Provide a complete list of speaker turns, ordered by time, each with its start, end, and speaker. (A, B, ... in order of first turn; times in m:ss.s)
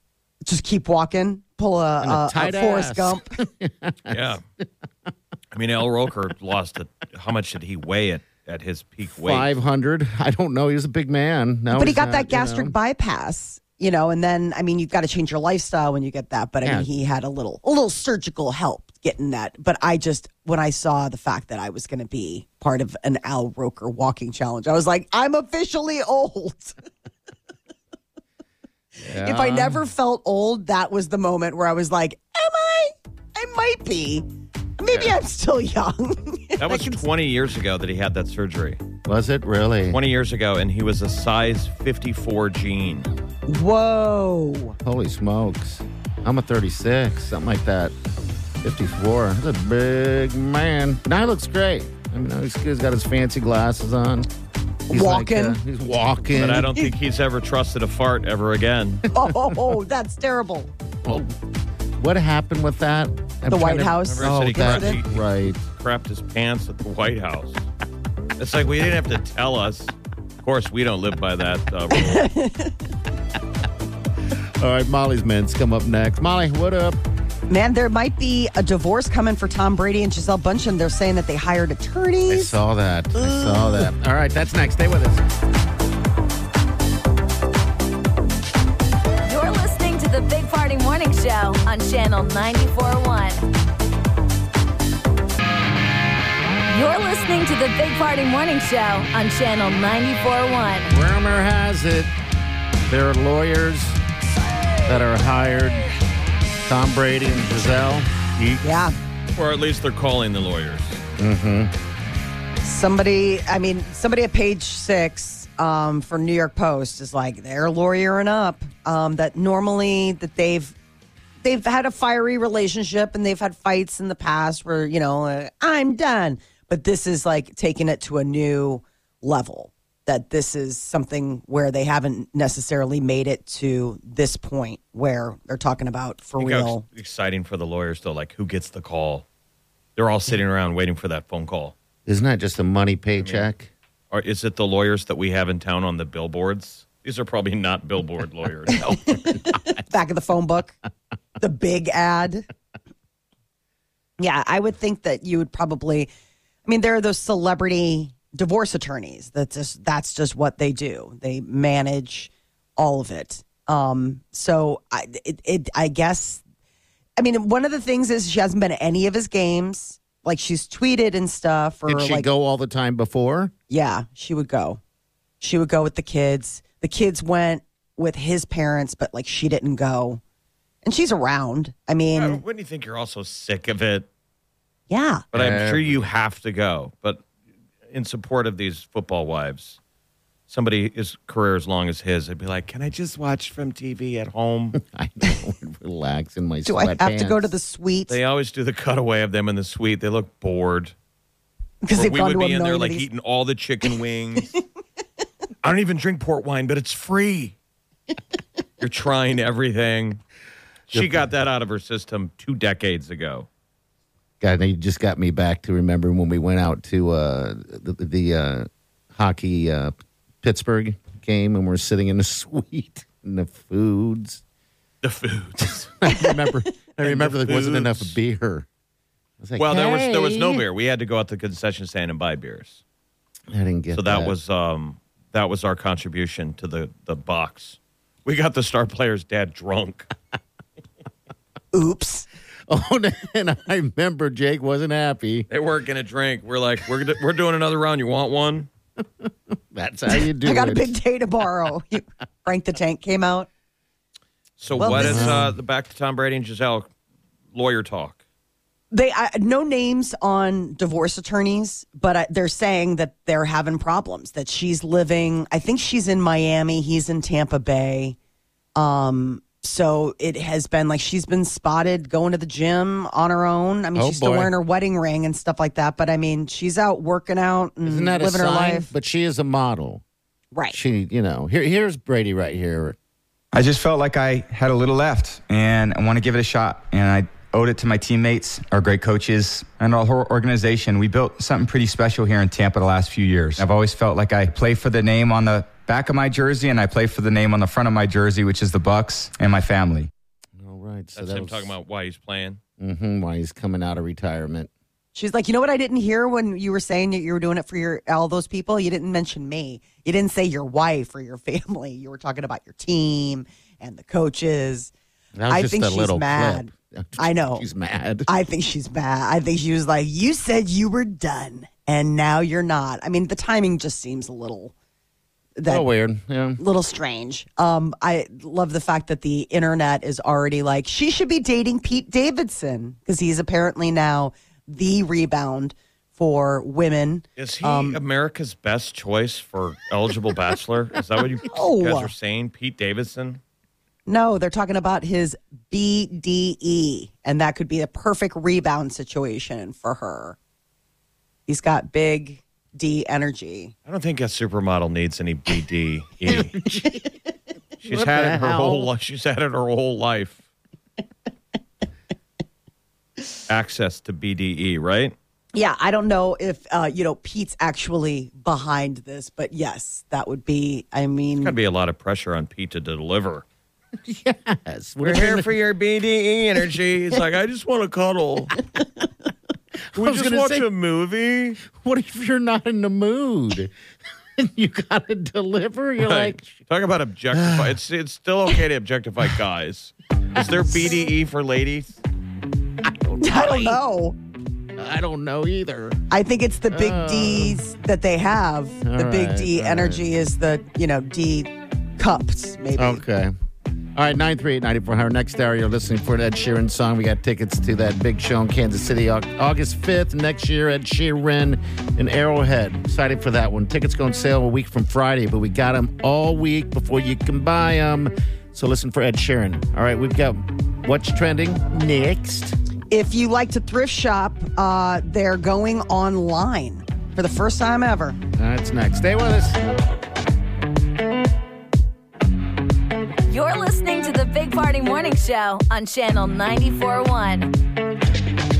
0:00.4-0:03.4 A
0:02.0-0:04.4 B
0:04.1-0:04.4 C
0:05.5-0:09.5 C
0:09.1-0:12.7 B
0:11.7-0:26.8 A
0:29.0-0:29.8 B
0:29.1-0:34.2 A
0:34.8-0:37.0 A
0:36.6-0:38.8 C
0:39.0-0:40.0 B
0:39.9-0:43.1 C
0:43.5-0:44.8 A
0:44.8-0:47.9 B
0:48.6-0:54.3 B
0:54.9-0:55.6 A
0:54.9-0:56.8 B
0:56.3-0:59.0 C
0:59.1-1:00.7 A
1:01.0-1:01.3 B
1:02.0-1:05.6 B
1:03.5-1:05.0 A
1:04.0-1:07.6 C
1:08.4-1:12.3 C
1:11.9-1:12.8 A
1:14.3-1:17.0 B
1:17.5-1:22.6 A
1:22.3-1:25.2 B
1:23.2-1:23.8 A
1:29.3-1:33.4 D
1:36.7-1:40.9 D
1:40.9-1:42.1 B
1:42.8-1:44.0 B
1:44.8-1:45.9 B
1:46.6-1:48.6 B
1:48.6-1:48.9 A
1:49.3-1:51.0 C
1:51.2-1:51.7 B
1:52.6-2:00.7 A
2:01.4-2:16.8 A
2:16.4-2:19.2 C
2:20.0-2:21.7 C
2:22.0-2:23.7 B
2:23.2-2:23.5 C
2:24.1-2:29.2 C
2:28.7-2:30.8 A
2:31.4-2:32.5 A
2:34.2-2:36.1 A
2:36.6-2:46.4 A
2:47.2-2:52.3 A
2:51.9-2:53.5 B
2:53.7-2:54.8 A
2:55.4-3:00.2 A
3:00.8-3:02.4 A
3:02.1-3:04.1 C
3:04.9-3:05.2 A
3:05.3-3:06.1 B
3:05.3-3:07.2 C
3:07.9-3:09.8 C
3:10.5-3:14.8 C
3:14.7-3:17.5 B
3:16.6-3:18.2 A
3:18.1-3:20.9 C
3:21.8-3:23.1 A
3:21.9-3:24.6 C
3:25.6-3:27.5 C
3:28.8-3:30.2 C
3:30.9-3:33.5 C
3:30.9-3:31.2 B
3:34.4-3:44.4 B
3:45.0-3:45.9 C
3:46.0-3:48.7 B
3:47.0-3:48.2 C
3:49.4-3:50.6 B
3:49.6-3:52.8 C
3:53.5-3:54.3 B
3:53.9-4:00.1 C
4:01.7-4:02.3 A
4:02.7-4:05.5 B
4:05.5-4:08.7 C
4:09.0-4:10.9 B
4:10.4-4:13.5 A
4:14.6-4:16.9 C
4:14.8-4:15.5 A
4:14.8-4:15.5 B
4:17.5-4:18.2 C
4:18.9-4:28.2 A
4:28.8-4:38.9 A
4:33.9-4:34.5 B
4:37.8-4:40.0 B
4:40.5-4:40.8 A
4:40.7-4:43.0 B
4:43.5-5:00.1 E
5:00.6-5:01.7 B
5:01.1-5:02.6 C
5:02.8-5:04.7 B
5:05.1-5:14.9 A
5:15.4-5:18.3 B
5:15.5-5:17.6 A
5:18.3-5:24.7 A
5:25.6-5:25.8 A
5:25.7-5:26.6 B
5:26.6-5:38.0 A
5:37.4-5:43.4 C
5:41.5-5:42.1 A
5:44.1-5:50.4 A
5:51.5-5:53.7 A
5:53.9-5:56.6 C
5:56.2-5:57.1 B
5:57.8-5:58.9 B
5:57.8-6:00.4 C
6:03.5-6:05.1 C
6:05.5-6:11.5 A
6:11.4-6:13.4 C
6:14.0-6:15.6 B
6:15.0-6:18.6 C
6:19.9-6:20.7 B
6:19.9-6:21.6 C
6:21.6-6:23.7 B
6:24.4-6:26.6 B
6:26.0-6:32.0 C
6:27.3-6:27.7 B
6:30.3-6:30.8 B
6:32.8-6:33.8 B
6:33.2-6:34.2 A
6:34.8-6:36.0 B
6:36.1-6:43.0 A
6:36.7-6:37.6 B
6:38.8-6:40.0 B
6:42.8-6:43.3 B
6:43.9-7:02.6 B
7:02.9-7:08.2 A
7:08.4-7:09.6 B
7:13.3-7:17.5 D